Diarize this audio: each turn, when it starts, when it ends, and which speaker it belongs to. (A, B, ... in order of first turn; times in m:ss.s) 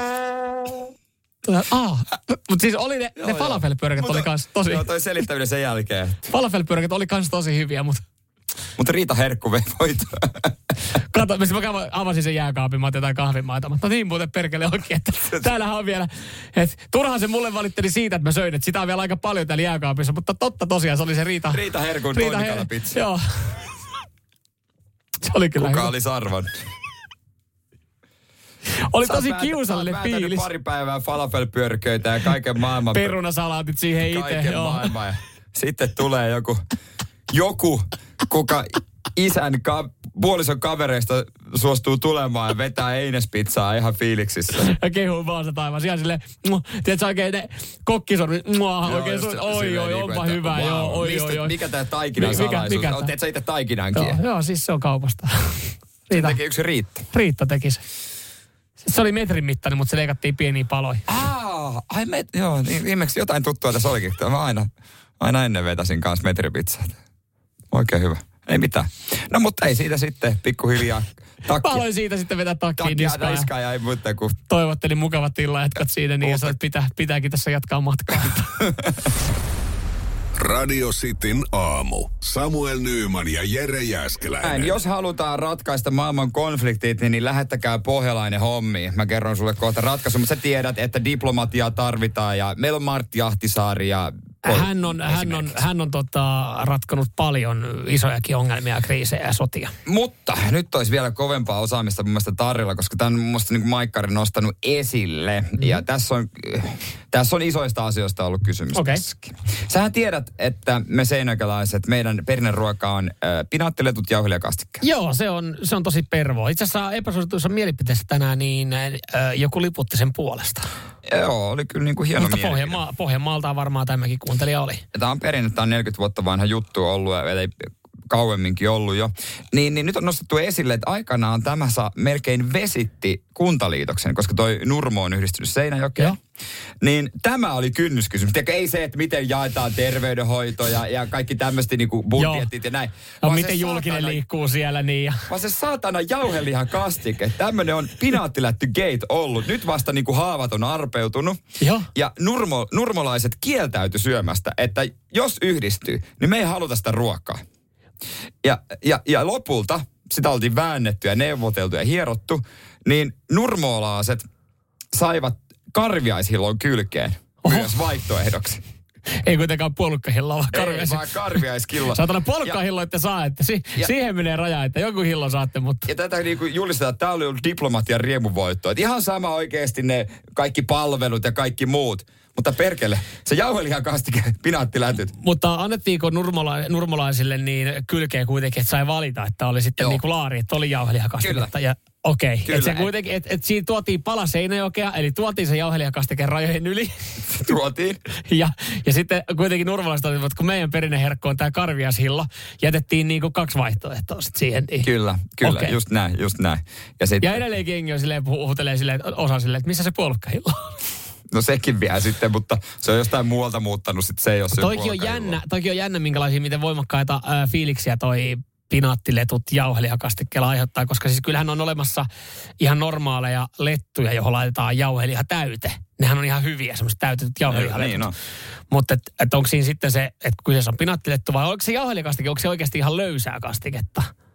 0:01.4-0:04.8 A
0:03.2-0:06.2 B
0:06.3-0:08.0 A
0:08.8-0:10.5 B
0:11.0-0:21.6 A
0:21.5-0:23.0 B
0:22.1-0:23.6 A
0:25.2-0:25.9 A
0:25.6-0:26.6 B
0:28.8-0:30.5 A
0:29.0-0:33.1 B
0:32.9-0:34.9 A
0:34.0-0:36.6 B
0:37.3-0:44.7 B
0:44.6-0:51.6 A
0:48.8-0:54.2 B
0:52.2-0:53.1 A
0:53.9-0:56.4 A
0:56.1-0:57.0 B
0:57.1-0:57.8 A
0:58.8-1:01.0 A
1:01.1-1:04.7 B
1:05.2-1:07.0 B
1:07.7-1:11.8 B
1:11.6-1:13.5 A
1:12.8-1:14.4 B
1:14.5-1:18.6 A
1:16.2-1:16.6 B
1:18.2-1:19.0 B
1:20.4-1:24.8 C
1:24.4-1:35.6 B
1:34.4-1:39.7 A
1:39.9-1:54.8 B
1:48.7-1:49.0 A
1:54.8-2:00.7 A
2:01.1-2:02.8 B
2:02.2-2:04.8 A
2:04.9-2:16.2 B
2:16.8-2:24.2 B
2:22.2-2:22.5 A
2:23.2-2:25.3 A
2:25.3-2:31.4 B
2:31.6-2:31.9 A
2:31.9-2:37.4 B
2:38.4-2:44.3 B
2:44.9-2:48.6 B
2:47.4-2:47.7 A
2:49.2-2:51.1 A
2:50.5-2:52.6 B
2:51.9-2:55.9 A
2:55.9-3:05.1 B
3:05.2-3:16.9 A
3:11.2-3:11.5 B
3:12.4-3:12.9 B
3:17.3-3:18.0 B
3:18.2-3:24.9 A
3:24.8-3:27.4 B
3:25.4-3:25.8 A
3:27.2-3:30.7 A
3:31.3-3:35.4 B
3:34.5-3:42.1 A
3:42.6-3:48.1 A
3:47.5-3:48.1 B
3:48.7-3:54.1 A